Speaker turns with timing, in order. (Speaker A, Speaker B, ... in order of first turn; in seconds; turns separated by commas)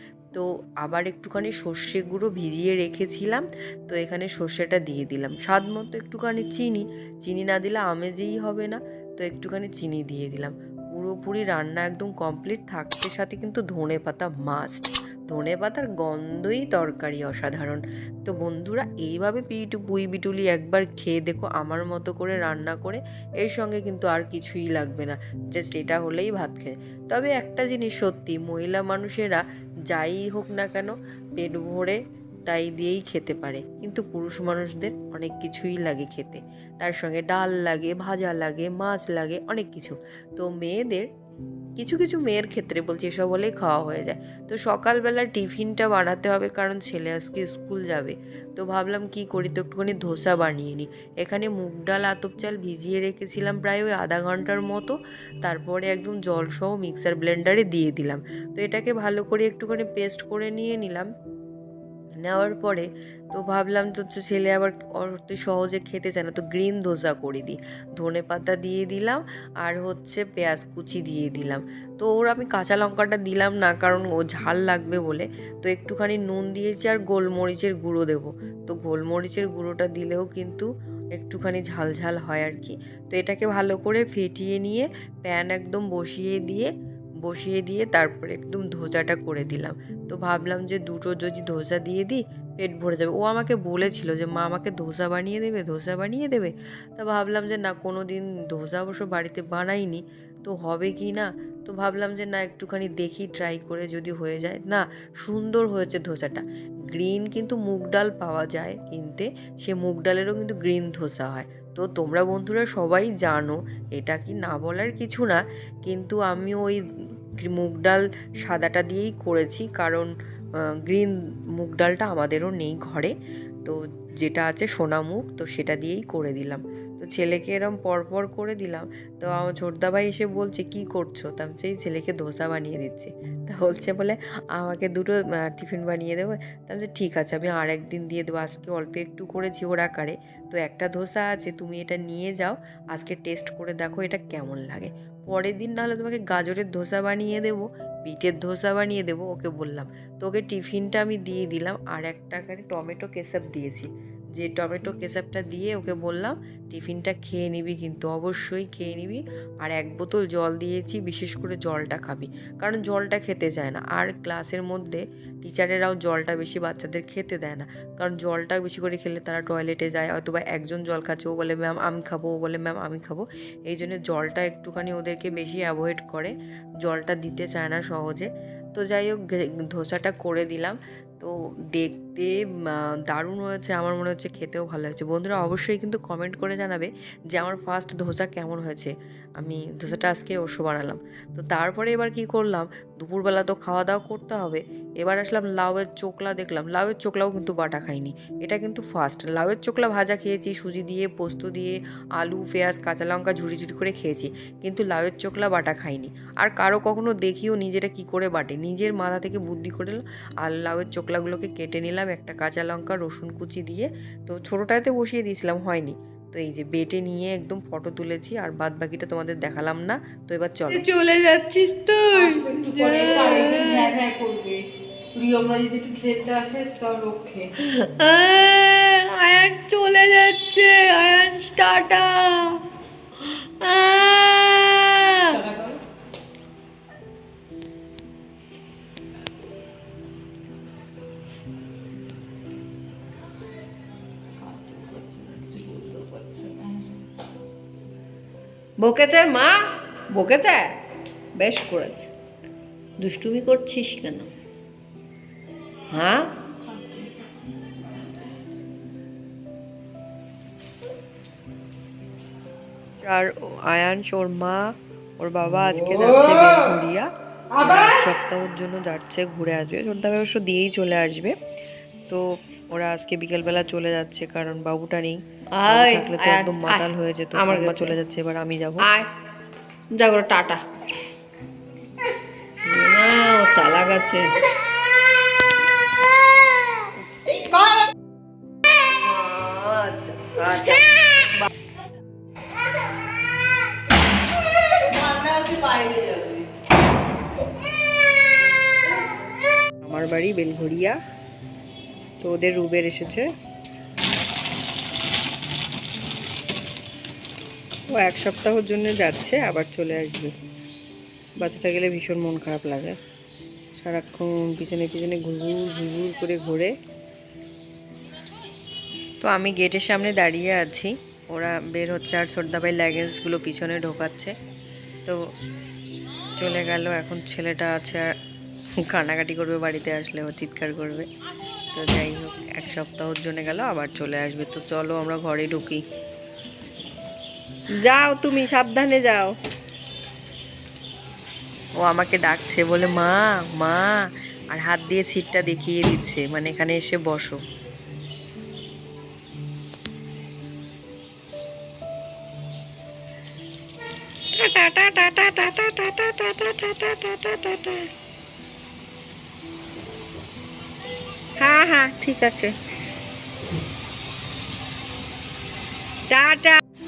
Speaker A: 0.3-41.1, Speaker A: 41.8-61.1, Speaker A: 62.2-86.7, Speaker A: 87.2-116.8, Speaker A: 117.4-120.1, Speaker A: 120.8-123.1, Speaker A: 123.6-220.8, Speaker B: 220.7-223.9, Speaker C: 222.1-227.5, Speaker B: 227.6-232.5, Speaker B: 233.4-235.4, Speaker C: 235.3-235.8, Speaker C: 244.4-246.9, Speaker B: 248.8-249.5, Speaker B: 250.1-250.6, Speaker B: 251.4-252.1, Speaker B: 253.0-254.1, Speaker B: 255.9-256.2, Speaker C: 256.4-258.6, Speaker A: 263.0-271.3, Speaker A: 272.1-278.9, Speaker B: 275.5-277.9, Speaker B: 278.8-279.1, Speaker B: 279.9-280.6, Speaker B: 282.6-284.3, Speaker B: 289.0-291.3, Speaker C: 295.0-295.5, Speaker B: 295.4-296.2, Speaker A: 299.8-301.0, Speaker A: 302.2-303.3, Speaker A: 308.0-310.3, Speaker B: 309.0-309.4, Speaker A: 311.5-312.9, Speaker A: 313.8-316.7, Speaker A: 319.2-324.3, Speaker A: 326.4-328.1, Speaker A: 328.8-331.1, Speaker A: 331.7-335.8, Speaker B: 337.8-339.3, Speaker A: 341.8-347.4, Speaker B: 354.4-357.9, Speaker B: 361.4-362.5, Speaker B: 366.1-366.6